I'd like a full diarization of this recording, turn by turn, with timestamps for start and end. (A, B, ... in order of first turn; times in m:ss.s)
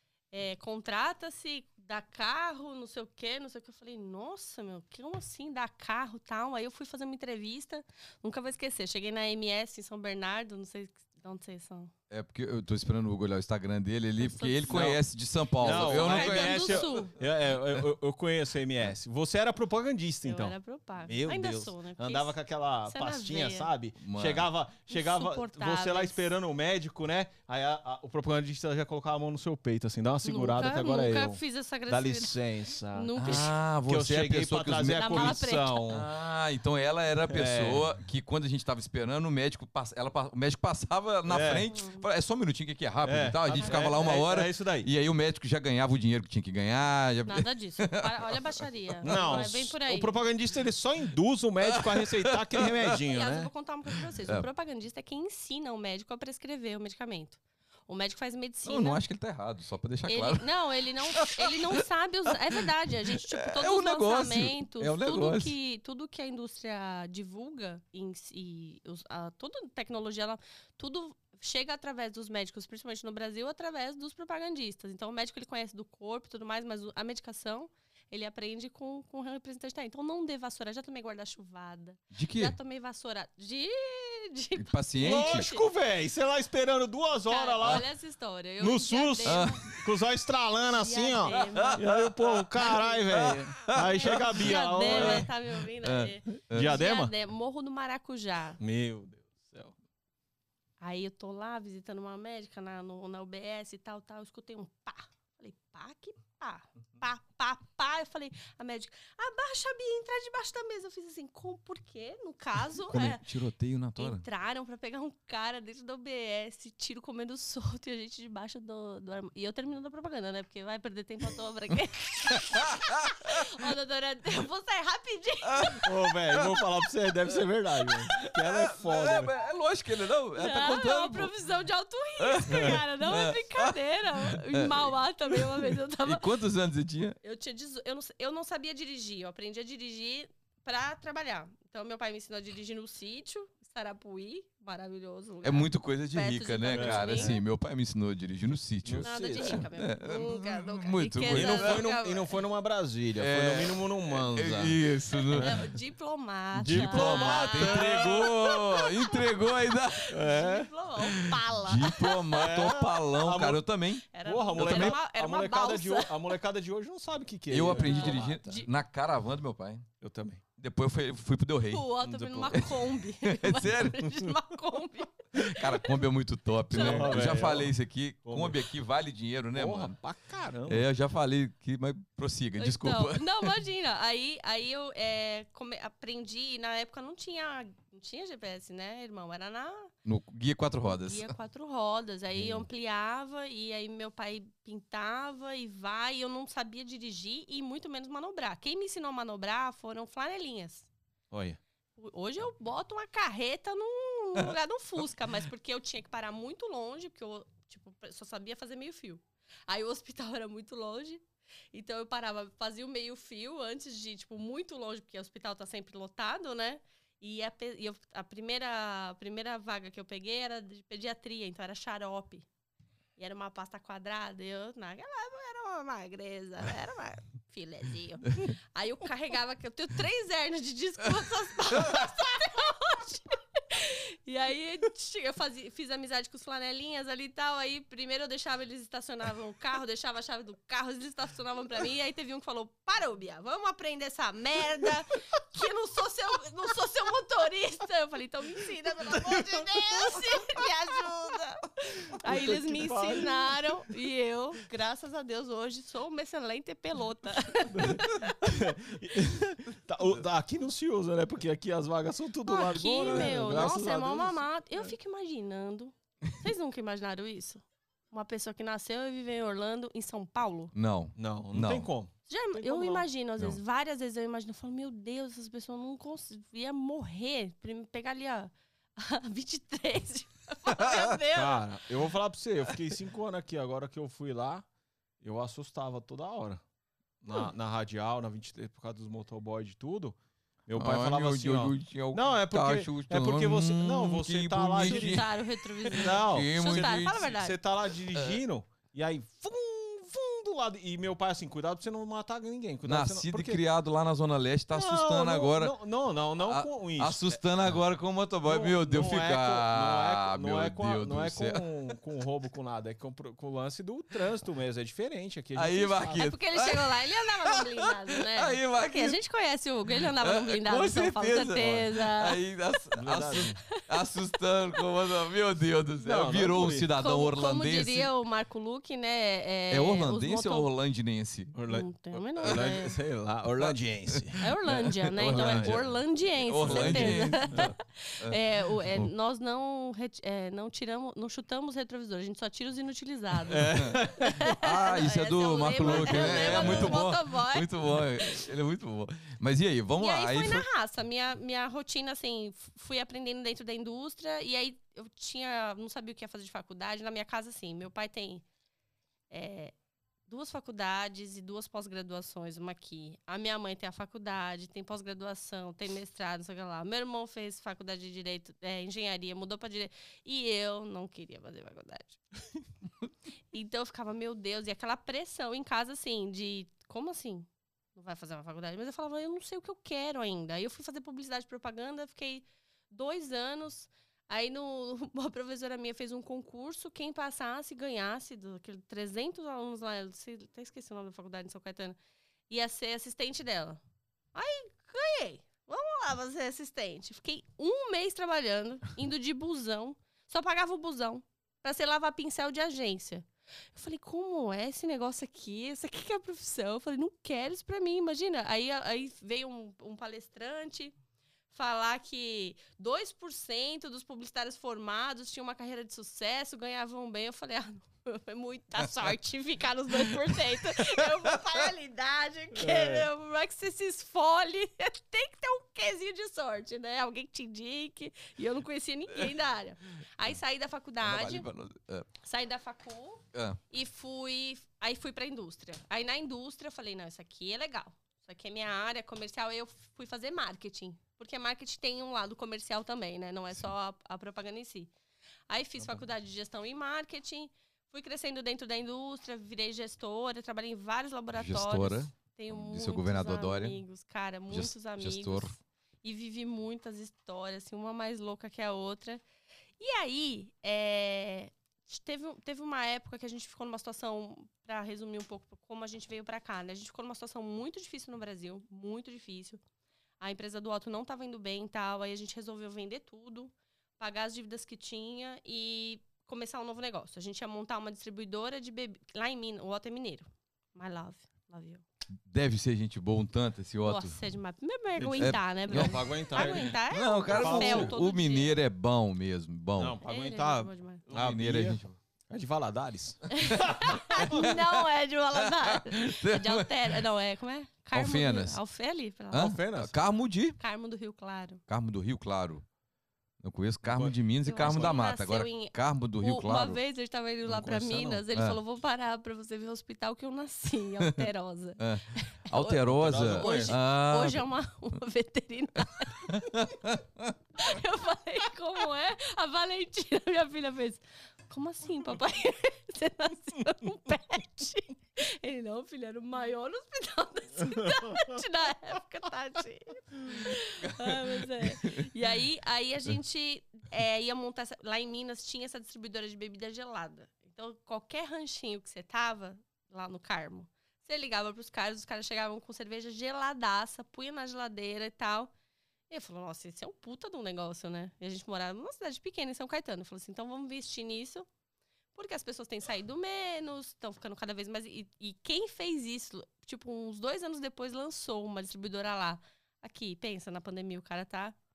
0:00.3-0:11.9 A
0:12.1-0:17.0 B
0:14.2-0:14.9 A
0:14.7-0:15.0 C
0:15.6-0:36.1 C
0:15.7-0:17.1 A
0:20.2-0:22.4 A
0:22.9-0:23.7 A
0:24.0-0:24.5 B
0:24.9-0:26.3 A
0:30.2-0:33.6 A
0:33.2-0:48.4 B
0:35.0-0:35.9 A
0:37.3-0:38.0 C
0:41.3-0:41.7 C
0:41.7-0:42.0 A
0:43.0-0:44.9 C
0:43.6-0:44.0 A
0:47.2-0:50.2 A
0:49.0-0:49.4 B
0:49.0-0:53.5 C
0:51.7-0:52.7 B
0:53.1-0:59.0 A
0:58.6-1:00.6 B
1:00.1-1:25.7 A
1:01.1-1:01.5 B
1:03.1-1:05.5 B
1:22.1-1:22.6 B
1:24.6-1:25.4 B
1:25.0-1:27.9 C
1:27.3-1:29.7 A
1:28.6-1:35.3 C
1:29.2-1:29.8 B
1:30.7-1:31.8 A
1:31.3-1:35.3 B
1:33.7-1:38.6 A
1:35.8-1:36.8 B
1:36.4-1:37.1 C
1:38.6-1:39.7 C
1:40.8-1:53.2 A
1:52.9-1:54.2 B
1:54.0-2:05.9 A
2:05.4-2:06.6 B
2:05.8-2:09.3 C
2:08.2-2:11.3 B
2:10.4-2:16.3 A
2:12.2-2:13.8 B
2:12.5-2:12.8 C
2:14.3-2:14.9 B
2:16.0-2:17.2 B
2:17.2-2:27.4 A
2:25.4-2:31.8 B
2:26.7-2:27.4 C
2:28.8-2:29.6 C
2:29.0-2:32.3 A
2:31.3-2:35.6 C
2:33.2-2:35.6 B
2:35.3-2:42.4 A
2:36.5-2:40.2 B
2:36.6-2:38.3 C
2:40.1-2:40.7 C
2:41.5-2:45.0 B
2:42.3-2:43.6 C
2:44.1-2:46.3 A
2:44.2-2:48.4 C
2:47.5-2:49.8 B
2:47.7-2:48.7 A
2:50.0-2:50.4 C
2:50.6-2:54.1 B
2:51.7-2:55.9 A
2:55.4-3:00.0 B
2:56.7-2:57.2 A
2:56.7-2:58.6 C
2:59.5-3:00.8 C
3:00.6-3:03.5 B
3:02.6-3:09.9 A
3:10.0-3:11.3 B
3:10.9-3:20.9 A
3:12.4-3:12.6 C
3:21.3-3:21.6 C
3:22.0-3:42.4 A
3:43.2-4:18.4 A
4:12.1-4:13.9 C
4:17.7-4:24.8 C
4:22.4-4:30.7 A
4:30.7-4:31.9 B
4:31.2-4:33.0 C
4:32.3-4:41.7 A
4:40.7-4:41.2 B
4:41.3-4:44.7 C
4:45.2-4:46.6 C
4:47.2-4:55.2 C
4:50.7-4:57.3 B
4:54.9-4:57.6 A
4:56.0-5:03.6 C
4:58.1-4:58.4 B
5:02.8-5:05.7 B
5:04.7-5:07.7 C
5:06.4-5:11.7 B
5:08.4-5:16.3 C
5:15.5-5:19.2 B
5:16.1-5:22.4 A
5:20.0-5:28.1 B
5:20.9-5:21.1 C
5:22.9-5:23.6 C
5:26.0-5:26.9 C
5:27.0-5:30.7 A
5:29.7-5:31.6 B
5:31.5-5:34.4 C
5:31.7-5:33.0 A
5:32.4-5:32.8 B
5:33.5-5:35.8 B
5:34.4-5:48.4 A
5:35.1-5:35.9 C
5:36.4-5:39.1 B
5:36.6-5:37.7 C
5:43.5-5:44.4 C
5:43.7-5:44.0 B
5:44.5-5:50.6 B
5:45.8-5:47.0 C
5:50.0-5:58.4 A
5:59.3-5:59.7 A
6:00.3-6:12.2 A
6:13.5-6:32.0 A
6:32.5-6:33.8 A
6:34.3-6:50.9 A
6:51.5-7:11.5 A
7:00.3-7:01.2 B
7:02.6-7:03.1 C
7:11.0-7:12.1 B
7:12.2-7:24.9 A
7:13.3-7:13.6 B
7:25.5-7:39.2 A
7:31.3-7:33.8 B
7:34.5-7:35.5 B
7:39.8-7:49.6 A
7:50.2-8:01.8 A
8:02.2-8:04.2 B
8:03.8-8:08.6 A
8:05.0-8:08.0 C
8:05.2-8:10.0 B
8:09.8-8:14.4 C
8:10.0-8:11.0 A
8:11.1-8:12.0 B
8:13.3-8:19.6 A
8:14.2-8:14.8 B
8:15.4-8:17.0 B
8:17.9-8:18.6 B
8:19.3-8:20.6 B
8:19.3-8:19.9 C
8:20.6-8:21.6 A
8:21.7-8:22.6 B
8:23.4-8:26.8 B
8:23.8-8:25.0 C
8:24.4-8:36.4 A
8:27.5-8:28.2 C
8:31.0-8:31.3 B
8:31.8-8:34.4 B
8:32.9-8:33.7 C
8:36.2-8:37.3 B
8:37.6-9:05.5 A
8:50.8-8:51.9 B
9:06.1-9:11.5 A
9:12.1-9:21.6 A